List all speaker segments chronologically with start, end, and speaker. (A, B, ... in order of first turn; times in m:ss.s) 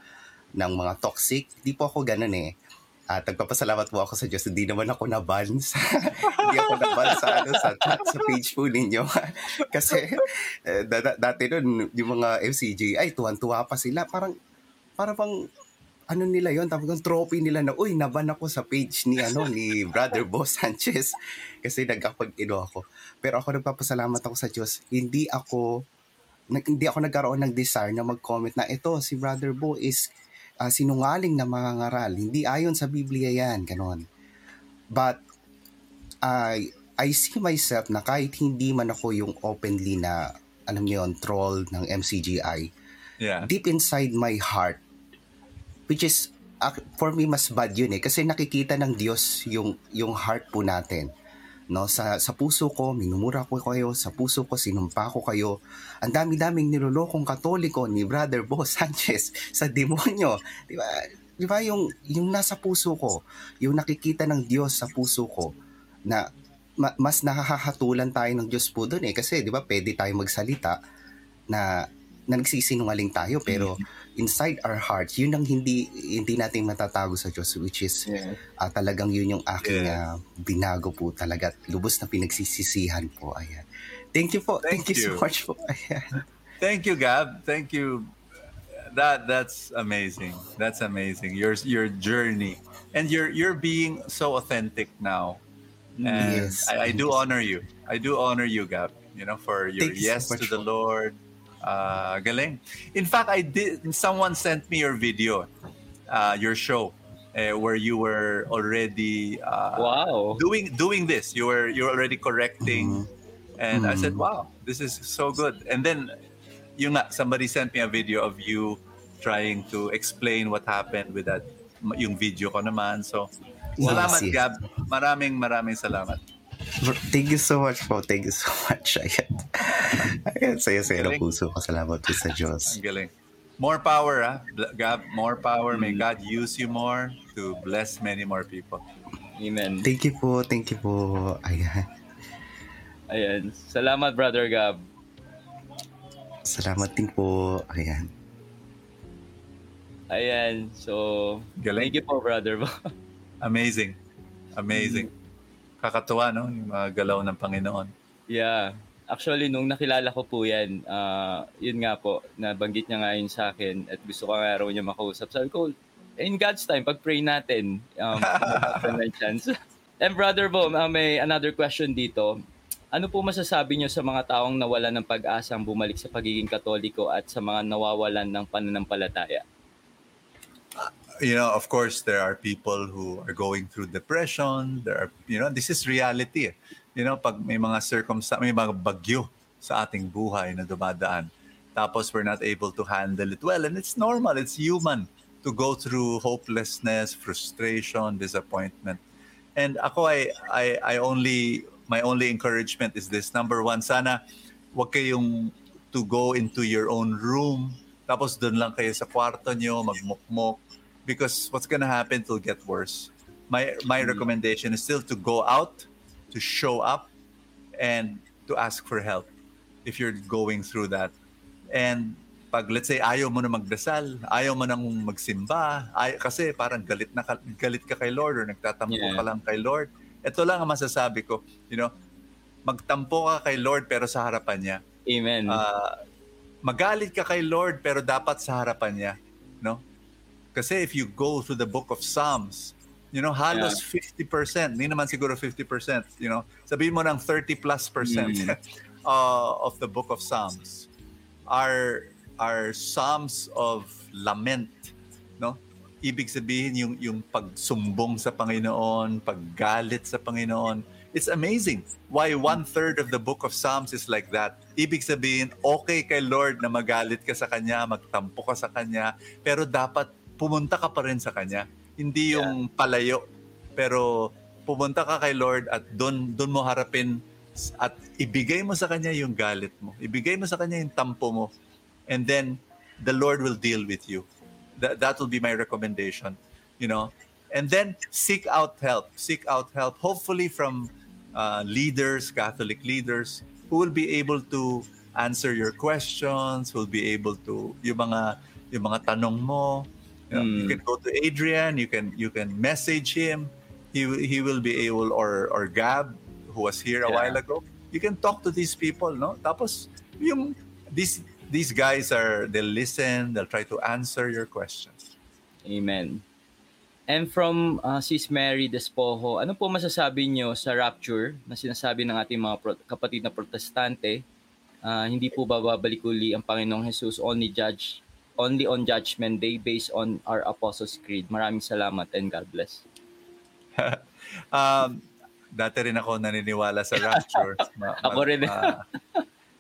0:00.6-0:02.5 A
0:03.1-0:14.3 A
0:06.3-0:08.3 B
0:09.6-0:10.2 B
0:15.0-0:15.5 A
0:16.1-0:25.7 A
0:26.5-0:30.1 A
0:30.6-0:34.0 A
0:34.9-0:35.2 A
0:36.2-0:42.7 A
0:43.2-0:43.5 B
0:43.4-0:44.8 A
0:45.9-0:51.1 A
0:51.7-1:05.5 A
1:06.8-1:10.8 A
1:11.5-1:23.6 A
1:13.5-1:13.8 C
1:18.1-1:18.4 C
1:19.6-1:20.0 B
1:24.2-1:26.2 A
1:24.6-1:25.2 B
1:26.6-1:28.1 B
1:28.8-1:35.4 B
1:36.0-1:36.4 C
1:36.0-1:45.5 B
1:36.2-1:37.2 A
1:39.8-1:40.6 A
1:46.1-1:53.0 B
1:49.8-1:50.4 C
1:52.6-1:53.0 A
1:53.6-1:56.1 B
1:53.7-1:54.2 A
1:56.8-2:06.2 B
2:03.8-2:04.4 A
2:03.8-2:04.2 C
2:06.8-2:12.8 A
2:10.9-2:11.3 B
2:12.7-2:18.8 B
2:15.7-2:16.0 C
2:19.4-2:19.9 C
2:19.8-2:21.9 A
2:23.1-2:24.8 C
2:26.5-2:28.1 A
2:30.1-2:32.7 C
2:31.6-2:31.9 B
2:33.4-2:34.0 B
2:34.6-2:35.1 B
2:34.7-2:35.1 C
2:35.8-2:37.9 B
2:38.3-2:52.4 C
2:48.2-2:49.0 B
2:52.9-2:59.4 C
3:00.8-3:19.0 B
3:19.6-3:24.2 B
3:24.7-3:37.1 B
3:34.0-3:34.3 C
3:37.8-3:39.3 B
3:39.8-3:41.1 B
3:41.7-3:51.9 B
3:48.9-3:49.3 C
3:52.7-3:54.8 B
3:55.1-3:55.6 C
3:55.5-3:56.0 B
3:56.6-3:59.8 B
4:00.5-4:10.9 B
4:03.5-4:03.8 C
4:08.0-4:08.6 C
4:11.5-4:33.2 B
4:33.8-4:41.5 B
4:42.1-4:44.3 B
4:44.8-5:15.0 B
5:00.3-5:00.8 C
5:07.1-5:07.4 C
5:15.7-5:16.2 C
5:17.1-5:24.2 C
5:24.8-5:32.8 C
5:33.8-5:38.8 B
5:37.0-5:37.5 C
5:38.0-5:39.2 C